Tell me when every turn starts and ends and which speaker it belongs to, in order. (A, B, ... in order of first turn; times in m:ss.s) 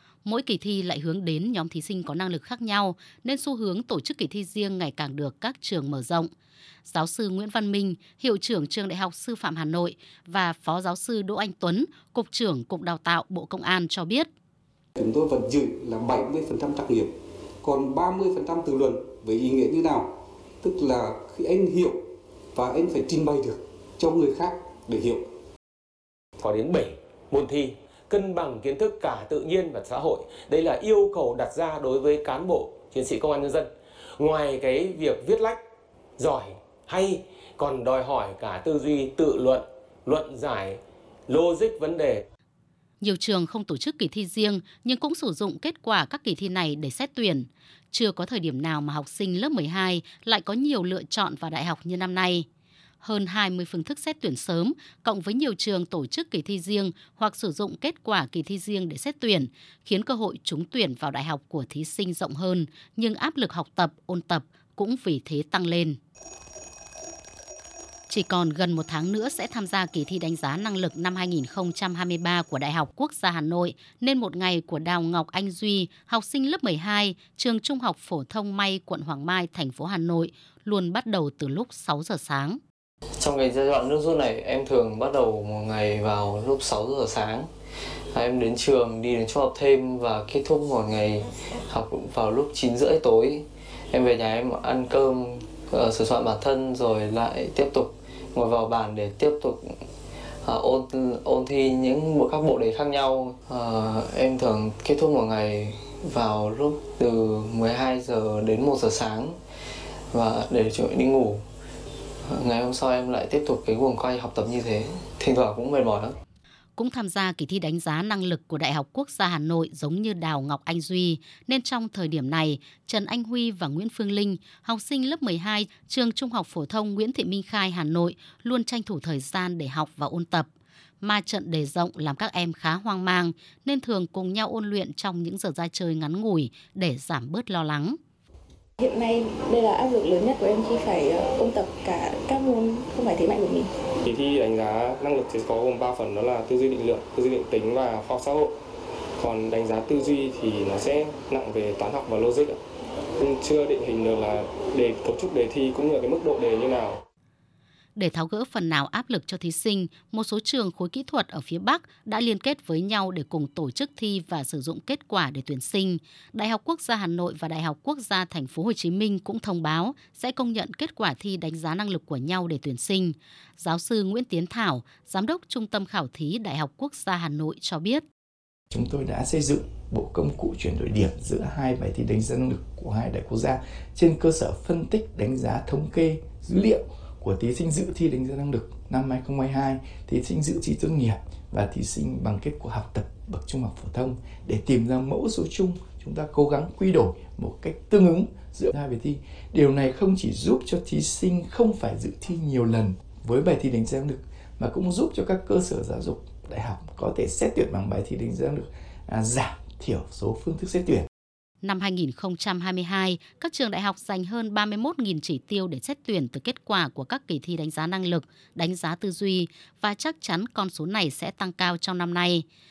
0:00.2-0:06.3 A
0:06.8-0:14.3 A
0:15.0-0:17.1 B
0:17.6-0:20.1 B
0:20.6-0:22.0 B
0:22.6-0:25.2 B
0:26.4-0:35.6 C
0:36.2-0:42.3 C
0:43.0-0:52.5 A
0:53.0-1:06.0 A
1:08.1-1:22.6 A
1:23.2-1:27.5 D
1:28.1-1:39.6 D
1:40.4-1:49.4 D
1:50.1-1:51.4 D
1:52.3-1:56.1 D
1:56.8-2:10.5 A
2:11.0-2:18.0 A
2:18.8-2:23.7 E
2:24.1-2:28.5 F
2:29.2-2:32.6 F
2:33.2-2:37.0 F
2:38.0-2:58.0 A
2:58.7-3:31.1 G
3:31.6-3:42.4 A